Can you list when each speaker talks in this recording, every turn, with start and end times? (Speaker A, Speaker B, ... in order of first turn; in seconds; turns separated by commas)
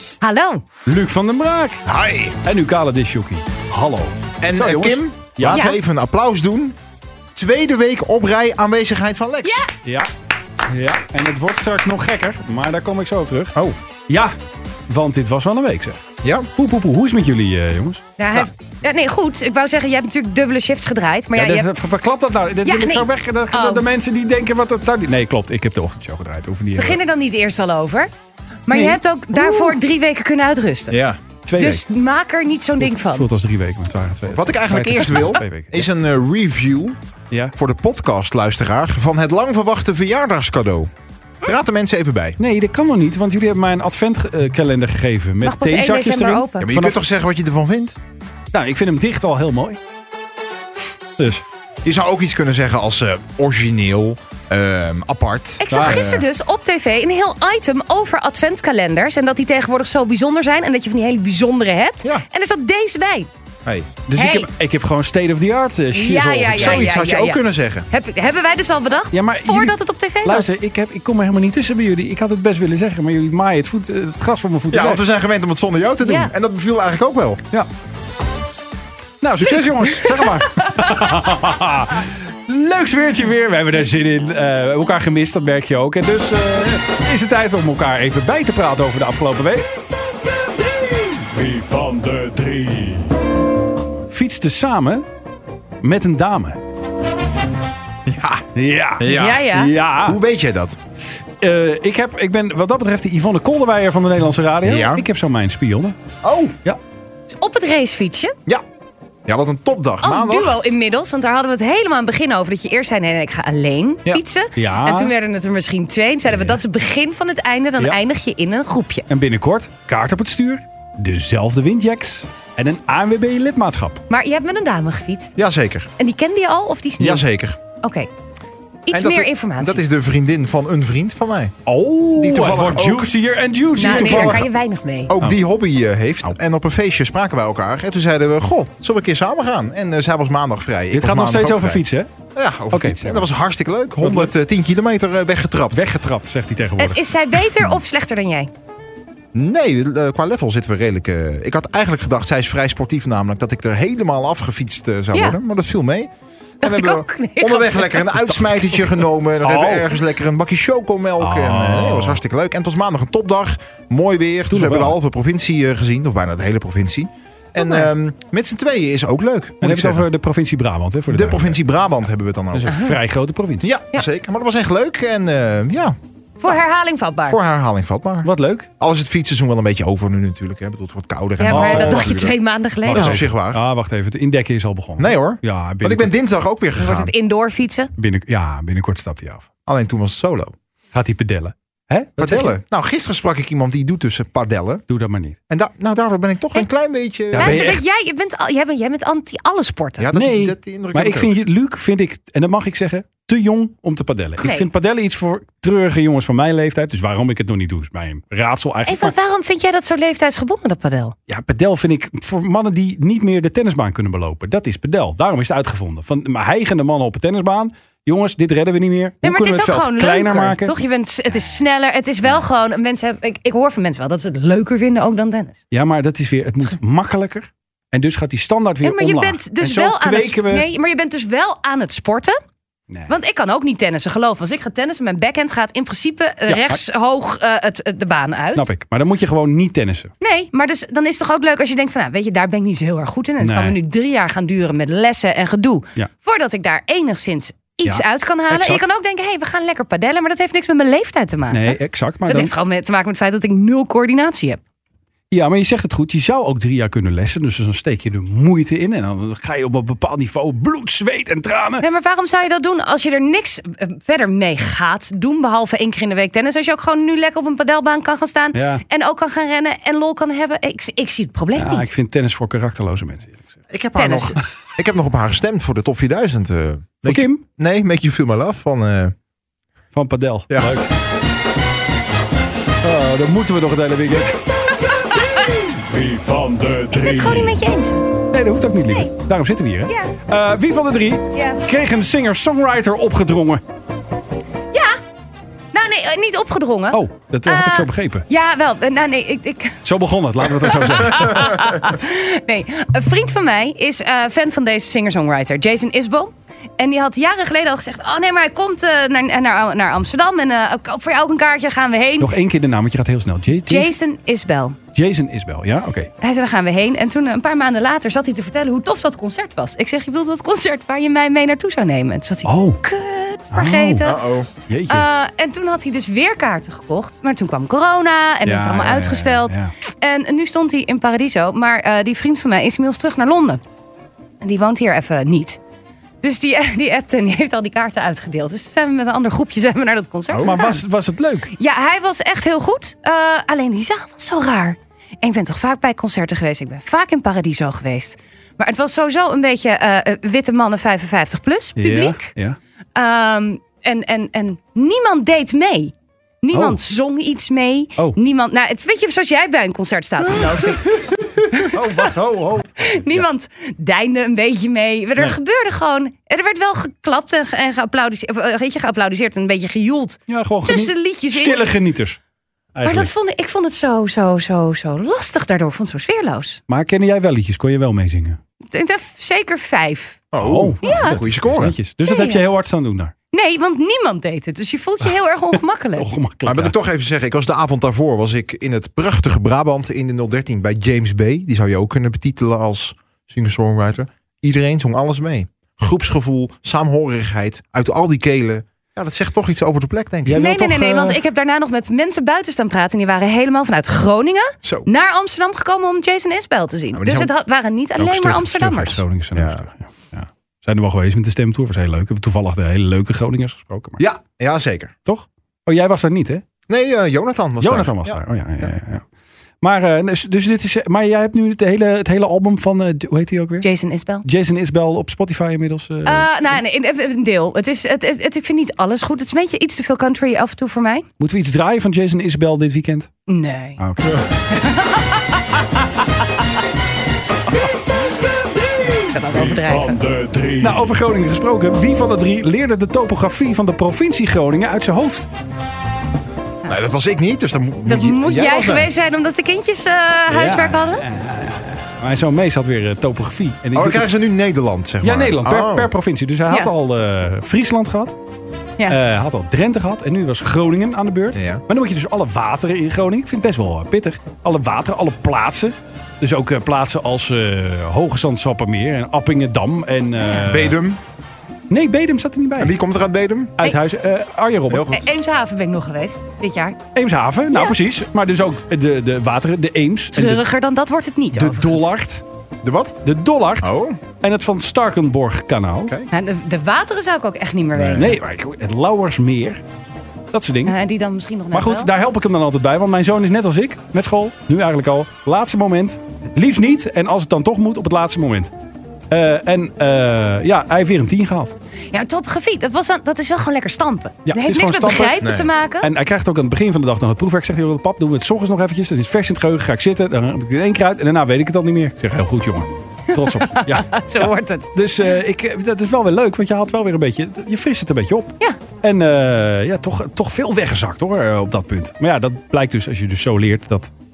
Speaker A: 0.2-0.6, Speaker B: 0.8-1.8, Speaker C: 1.9-2.4, Speaker B: 2.4-5.7, Speaker C: 4.4-6.8, Speaker A: 5.5-5.8, Speaker C: 7.3-9.6, Speaker A: 9.4-9.7, Speaker B: 10.7-13.6, Speaker B: 14.1-14.3, Speaker B: 14.9-16.0, Speaker C: 16.2-16.5, Speaker B: 16.6-18.0, Speaker A: 18.2-21.7, Speaker B: 21.3-27.0, Speaker A: 22.6-23.8, Speaker A: 26.8-28.1, Speaker A: 28.7-31.0, Speaker B: 28.7-29.7, Speaker C: 30.9-31.2, Speaker B: 31.4-31.8, Speaker A: 31.5-33.3, Speaker B: 32.8-35.8, Speaker C: 34.3-37.0, Speaker C: 37.5-40.9, Speaker C: 41.4-42.4, Speaker B: 42.4-47.0, Speaker A: 45.4-46.7, Speaker C: 46.6-48.0, Speaker B: 48.5-49.8, Speaker B: 51.2-51.4, Speaker C: 51.8-56.3, Speaker A: 55.6-63.3, Speaker B: 55.7-56.0, Speaker C: 63.6-63.9, Speaker B: 64.1-66.9, Speaker A: 64.1-64.5, Speaker A: 65.9-70.5, Speaker C: 66.5-67.9, Speaker B: 69.1-75.0, Speaker C: 74.7-77.4, Speaker A: 76.0-76.3, Speaker B: 79.2-89.7, Speaker A: 80.0-80.7, Speaker B: 91.1-93.1, Speaker B: 94.1-95.0, Speaker B: 95.8-96.6, Speaker C: 98.0-98.4, Speaker B: 98.5-100.2, Speaker C: 99.0-99.5, Speaker A: 99.0-99.7, Speaker C: 100.0-100.8, Speaker B: 101.4-106.0, Speaker C: 104.6-105.0, Speaker C: 106.2-106.5, Speaker A: 107.3-108.3, Speaker C: 109.2-110.6, Speaker A: 110.0-119.0, Speaker B: 114.5-115.1, Speaker B: 119.1-124.0, Speaker A: 124.1-125.3, Speaker C: 125.3-125.9, Speaker A: 126.0-127.2, Speaker C: 127.0-127.6, Speaker A: 127.8-128.1, Speaker A: 128.8-129.8, Speaker C: 128.9-131.5, Speaker B: 131.7-134.4, Speaker C: 132.1-133.1, Speaker A: 133.8-135.1, Speaker C: 133.8-134.5, Speaker C: 135.1-141.8, Speaker B: 140.9-142.1, Speaker C: 142.3-145.9, Speaker B: 142.7-143.3, Speaker B: 144.0-144.3, Speaker B: 145.7-147.0, Speaker A: 146.8-148.5, Speaker C: 149.3-156.1, Speaker A: 156.6-158.2, Speaker C: 156.6-170.1, Speaker B: 158.3-160.0, Speaker B: 161.2-162.2, Speaker B: 164.5-165.0, Speaker A: 167.6-167.9, Speaker B: 169.6-171.7, Speaker C: 171.1-172.8, Speaker B: 172.5-173.7, Speaker A: 172.7-172.9, Speaker C: 173.6-176.6, Speaker A: 176.4-177.4, Speaker C: 177.2-182.3, Speaker B: 178.2-178.7, Speaker A: 181.4-183.2, Speaker B: 181.5-182.3, Speaker B: 182.8-186.1, Speaker C: 182.9-183.6, Speaker C: 185.0-187.1, Speaker A: 186.8-187.9, Speaker B: 188.0-189.4, Speaker C: 189.7-190.5, Speaker B: 190.9-192.5, Speaker C: 192.2-194.8, Speaker B: 194.9-195.3, Speaker C: 195.5-197.7, Speaker B: 197.3-197.8, Speaker A: 197.3-200.1, Speaker C: 200.0-201.3, Speaker B: 200.1-209.1, Speaker A: 204.4-204.7, Speaker A: 208.8-211.1, Speaker B: 211.3-220.7, Speaker A: 219.2-225.6, Speaker B: 225.7-230.7, Speaker A: 228.8-232.3, Speaker A: 233.1-238.7, Speaker B: 236.5-236.8, Speaker B: 238.6-240.1, Speaker A: 240.2-251.8, Speaker B: 243.4-243.8, Speaker B: 247.8-248.8, Speaker B: 251.5-252.5, Speaker A: 252.3-254.6, Speaker B: 255.3-261.8, Speaker A: 261.8-271.9, Speaker B: 268.5-268.8, Speaker B: 271.6-273.5, Speaker C: 273.7-279.1, Speaker A: 273.9-274.4, Speaker B: 277.0-277.4, Speaker B: 279.9-280.9, Speaker C: 280.5-280.7, Speaker B: 282.8-284.7, Speaker A: 284.8-285.6, Speaker B: 285.8-287.6, Speaker A: 286.9-288.0, Speaker B: 288.3-293.6, Speaker A: 289.9-290.1, Speaker A: 291.3-291.6, Speaker A: 294.7-295.0, Speaker A: 295.7-299.8, Speaker B: 296.9-298.2, Speaker B: 299.8-301.7, Speaker A: 300.6-312.3, Speaker B: 312.2-313.9, Speaker A: 313.7-314.8, Speaker B: 314.9-316.1, Speaker A: 316.2-324.2, Speaker B: 322.4-322.8, Speaker B: 323.5-324.1, Speaker C: 324.0-324.5, Speaker B: 324.7-325.1, Speaker A: 324.9-333.6, Speaker B: 328.4-329.7, Speaker A: 334.4-335.6, Speaker A: 336.2-340.8, Speaker C: 340.3-340.6, Speaker B: 340.4-341.5, Speaker A: 341.5-352.3, Speaker B: 351.8-352.6, Speaker A: 352.9-361.9, Speaker B: 356.5-356.8, Speaker B: 360.4-363.2, Speaker A: 362.8-371.7, Speaker B: 370.3-372.2, Speaker B: 372.7-373.1, Speaker A: 372.8-376.6, Speaker B: 376.7-378.4, Speaker A: 378.7-380.2, Speaker C: 380.3-381.7, Speaker B: 380.4-383.1, Speaker A: 380.8-381.2, Speaker A: 382.0-382.4, Speaker A: 383.3-386.1, Speaker B: 385.9-386.7, Speaker C: 386.4-400.4, Speaker B: 400.2-401.2, Speaker A: 400.3-409.0, Speaker C: 406.9-407.3, Speaker B: 408.0-414.0, Speaker C: 409.3-409.6, Speaker C: 414.0-414.9, Speaker B: 415.1-416.4, Speaker C: 416.7-418.7, Speaker B: 417.6-419.0, Speaker B: 419.6-423.7, Speaker A: 423.6-424.2, Speaker B: 424.2-426.3, Speaker A: 426.0-431.1, Speaker B: 431.2-433.2, Speaker A: 433.3-436.0, Speaker B: 433.8-434.3, Speaker A: 438.9-440.2, Speaker B: 440.5-445.3, Speaker C: 446.6-448.9, Speaker A: 447.8-451.0, Speaker B: 450.3-454.1, Speaker C: 453.7-455.9, Speaker B: 455.0-458.1, Speaker B: 458.9-470.8, Speaker C: 461.3-461.6, Speaker C: 470.4-471.0, Speaker B: 471.7-472.8, Speaker C: 472.6-473.6, Speaker B: 473.6-474.9, Speaker C: 474.7-475.1, Speaker A: 474.9-476.8, Speaker B: 476.9-480.4, Speaker A: 480.1-481.9, Speaker B: 481.3-482.2, Speaker C: 482.6-483.0, Speaker B: 483.0-485.9, Speaker C: 483.6-484.0, Speaker A: 486.1-488.2, Speaker C: 487.7-488.1, Speaker B: 487.9-489.6, Speaker B: 490.3-490.7, Speaker A: 490.6-491.9, Speaker B: 491.5-498.5, Speaker B: 499.1-501.5, Speaker A: 501.9-505.9, Speaker B: 504.2-523.9, Speaker C: 505.2-505.5, Speaker A: 513.1-514.7